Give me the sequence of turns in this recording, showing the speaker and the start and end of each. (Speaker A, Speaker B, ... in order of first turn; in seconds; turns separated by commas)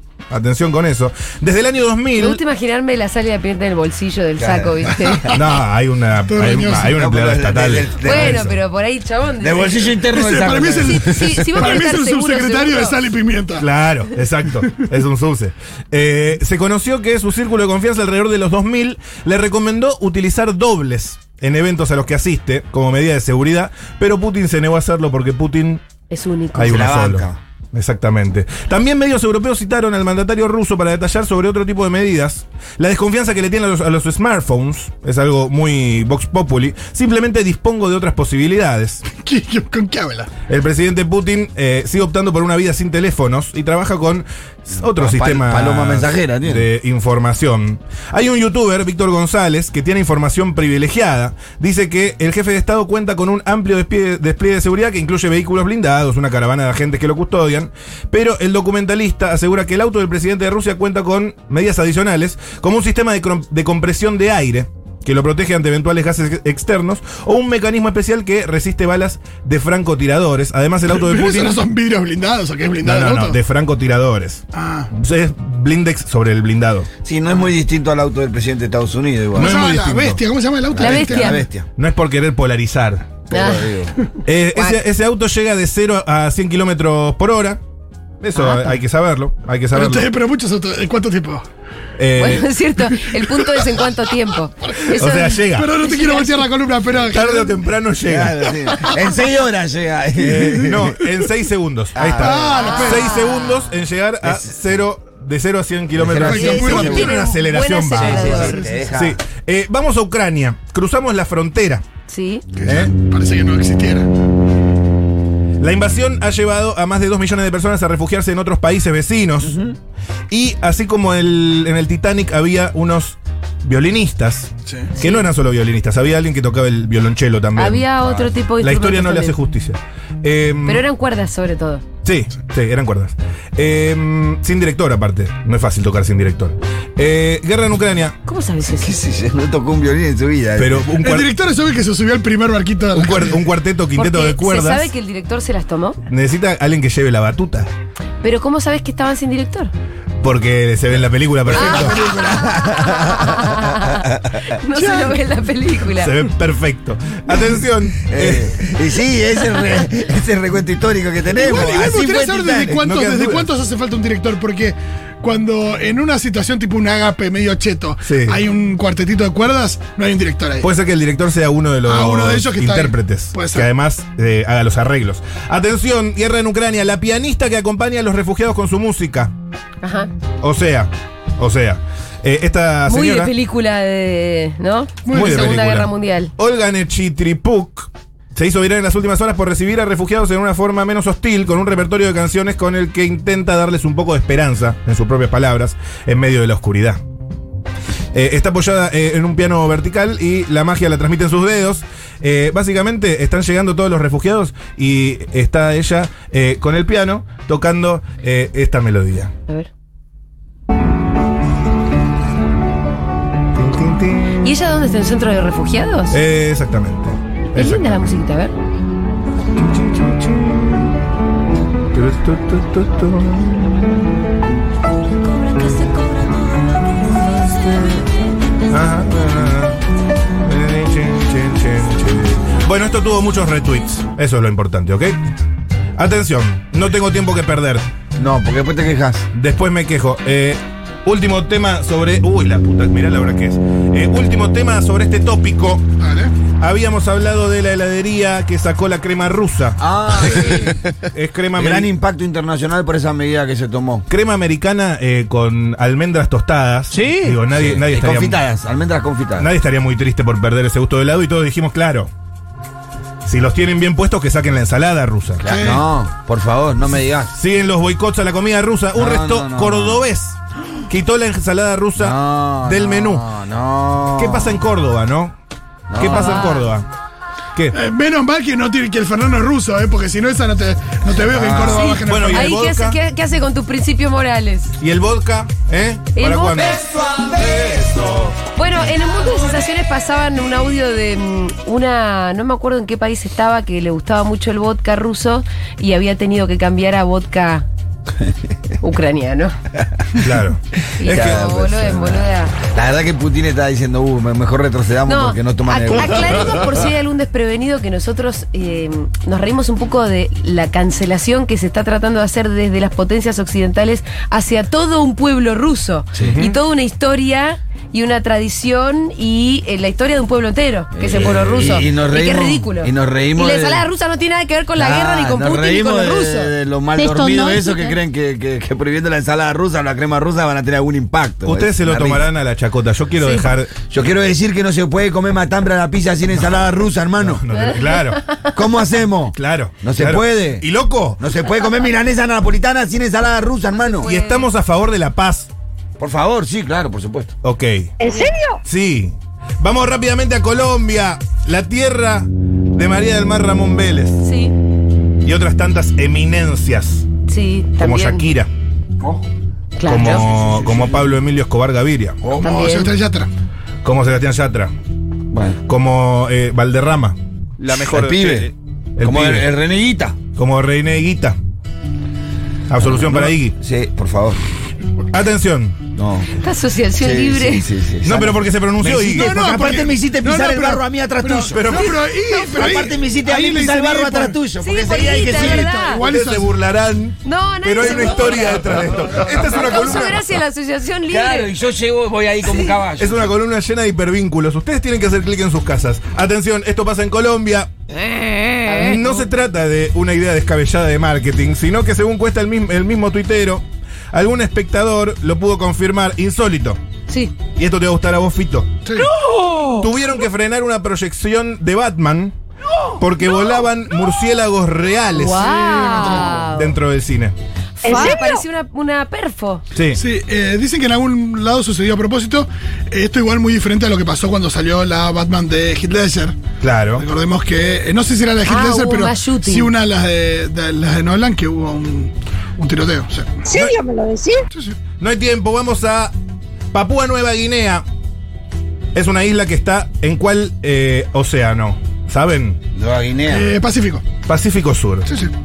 Speaker A: 0.3-2.4, Speaker B: 2.1-5.3, Speaker C: 4.4-5.4, Speaker A: 5.3-8.6, Speaker D: 6.3-6.9, Speaker C: 6.8-8.4, Speaker B: 8.0-9.9, Speaker C: 9.4-11.4, Speaker D: 10.1-13.7, Speaker B: 10.8-13.0, Speaker A: 13.6-25.8, Speaker B: 26.1-26.9, Speaker A: 26.5-39.0, Speaker C: 26.6-27.4, Speaker D: 39.1-40.3, Speaker A: 40.5-71.6, Speaker C: 44.8-46.7, Speaker D: 71.0-73.4, Speaker A: 72.8-76.9, Speaker D: 74.5-74.9, Speaker C: 77.0-79.6, Speaker A: 79.3-80.2, Speaker D: 79.3-81.4, Speaker C: 80.7-81.7, Speaker B: 80.8-81.4, Speaker A: 81.8-83.2, Speaker C: 83.3-84.0, Speaker B: 83.3-83.7, Speaker A: 84.2-87.6, Speaker B: 84.5-84.8, Speaker A: 88.2-90.1, Speaker B: 88.3-88.7, Speaker D: 89.7-91.4, Speaker A: 92.0-92.5, Speaker B: 92.1-96.3, Speaker D: 93.3-93.7, Speaker A: 94.9-95.7, Speaker D: 95.5-97.6, Speaker A: 97.1-98.4, Speaker C: 98.0-101.0, Speaker B: 98.7-99.0, Speaker A: 100.2-111.8, Speaker C: 102.0-102.5, Speaker D: 102.2-103.1, Speaker B: 102.5-103.7, Speaker C: 104.2-104.5, Speaker C: 105.9-107.1, Speaker D: 106.2-107.2, Speaker B: 106.4-108.7, Speaker C: 108.0-109.2, Speaker B: 112.1-112.4, Speaker D: 112.5-114.1, Speaker A: 112.6-112.9, Speaker A: 115.6-119.6, Speaker C: 119.5-119.7, Speaker A: 120.3-127.8, Speaker B: 125.0-125.2, Speaker B: 127.5-129.4, Speaker C: 128.0-128.3, Speaker A: 128.6-130.8, Speaker B: 130.7-131.8, Speaker A: 132.0-138.2, Speaker B: 138.2-139.0, Speaker C: 138.7-140.9, Speaker A: 140.6-141.3, Speaker D: 141.0-143.4, Speaker A: 142.9-144.9, Speaker B: 143.9-146.0, Speaker A: 146.1-147.7, Speaker B: 148.2-149.7, Speaker A: 150.2-152.0, Speaker C: 151.5-153.3, Speaker D: 151.6-152.5, Speaker B: 152.2-156.1, Speaker D: 154.7-155.2, Speaker A: 155.9-158.6, Speaker C: 158.1-162.8, Speaker D: 161.3-170.7, Speaker A: 162.8-163.5, Speaker A: 168.0-168.4, Speaker A: 170.6-179.3, Speaker D: 171.8-173.7, Speaker B: 179.8-180.1, Speaker A: 180.4-183.3, Speaker B: 182.9-186.3, Speaker D: 185.0-185.6, Speaker A: 185.1-197.0, Speaker A: 198.1-209.3, Speaker A: 213.5-214.4, Speaker B: 214.4-216.2, Speaker A: 216.1-218.2, Speaker B: 217.5-218.5, Speaker A: 219.6-220.9, Speaker A: 221.9-223.8, Speaker B: 225.2-226.8, Speaker A: 226.9-228.1, Speaker A: 228.7-229.8, Speaker A: 230.4-235.2, Speaker A: 236.0-237.8, Speaker C: 238.2-239.2, Speaker A: 239.3-245.8, Speaker D: 246.0-246.3, Speaker A: 246.6-251.9, Speaker C: 249.8-250.9, Speaker C: 251.5-254.0, Speaker A: 254.1-258.4, Speaker C: 256.9-259.5, Speaker A: 259.4-262.1, Speaker A: 263.2-265.4, Speaker C: 265.4-267.3, Speaker D: 265.4-265.8, Speaker A: 267.3-273.3, Speaker C: 268.9-270.0, Speaker C: 271.9-274.6, Speaker A: 274.1-275.3, Speaker C: 275.9-276.4, Speaker A: 275.9-276.9, Speaker B: 276.0-276.7, Speaker D: 277.7-282.5, Speaker C: 281.3-282.0, Speaker B: 281.7-284.7, Speaker A: 282.1-283.0, Speaker A: 284.8-288.4, Speaker B: 286.1-286.8, Speaker B: 288.5-297.7, Speaker B: 298.8-299.5, Speaker A: 300.2-300.6, Speaker B: 301.0-302.6, Speaker C: 301.0-306.7, Speaker B: 305.0-326.5, Speaker C: 316.1-316.4, Speaker A: 316.2-316.6, Speaker C: 320.9-323.9, Speaker C: 324.7-332.3, Speaker E: 326.9-328.0, Speaker A: 331.4-333.8, Speaker B: 333.2-333.5, Speaker C: 333.9-337.4, Speaker A: 337.2-338.2, Speaker B: 337.6-338.4, Speaker C: 338.5-340.7, Speaker A: 339.3-341.2, Speaker C: 341.2-344.1, Speaker B: 343.9-344.4, Speaker A: 344.0-345.5, Speaker C: 346.0-347.3, Speaker A: 347.4-347.9, Speaker E: 348.0-348.6, Speaker B: 348.1-348.3, Speaker A: 348.6-354.2, Speaker B: 354.2-354.5, Speaker A: 355.2-357.1, Speaker B: 357.3-358.2, Speaker A: 357.8-358.5, Speaker C: 359.0-359.3, Speaker B: 359.8-360.2, Speaker A: 359.9-362.2, Speaker C: 360.1-361.1, Speaker C: 362.2-362.5, Speaker D: 362.4-363.3, Speaker B: 362.4-362.9, Speaker A: 363.8-364.7, Speaker C: 365.3-365.6, Speaker A: 365.6-369.5, Speaker C: 367.7-370.2, Speaker A: 370.4-371.4, Speaker A: 372.7-373.6, Speaker C: 372.8-374.4, Speaker A: 375.1-375.8, Speaker C: 375.9-376.4, Speaker B: 376.3-377.7, Speaker C: 377.0-385.7, Speaker A: 378.0-379.3, Speaker D: 379.1-384.4, Speaker A: 381.5-382.1, Speaker B: 384.6-386.0, Speaker D: 385.1-386.5, Speaker A: 385.9-390.3, Speaker B: 387.2-391.5, Speaker C: 391.1-393.3, Speaker B: 392.4-392.7, Speaker A: 393.0-397.7, Speaker B: 398.6-399.3, Speaker A: 398.7-406.8, Speaker B: 407.1-407.3, Speaker A: 407.6-408.7, Speaker D: 408.9-409.1, Speaker E: 409.3-409.8, Speaker A: 409.8-412.3, Speaker A: 413.0-417.3, Speaker B: 415.1-416.8, Speaker D: 415.6-416.4, Speaker B: 417.8-419.6, Speaker E: 417.8-418.4, Speaker A: 419.7-420.0, Speaker D: 419.9-426.4, Speaker A: 426.6-427.1, Speaker D: 426.9-433.4, Speaker B: 428.4-429.7, Speaker E: 433.5-434.4, Speaker A: 433.5-433.8, Speaker D: 434.5-434.8, Speaker A: 435.0-436.1, Speaker A: 436.7-437.8, Speaker A: 438.9-442.6, Speaker C: 442.7-443.5, Speaker D: 443.3-444.0, Speaker A: 444.2-445.1, Speaker D: 445.1-445.3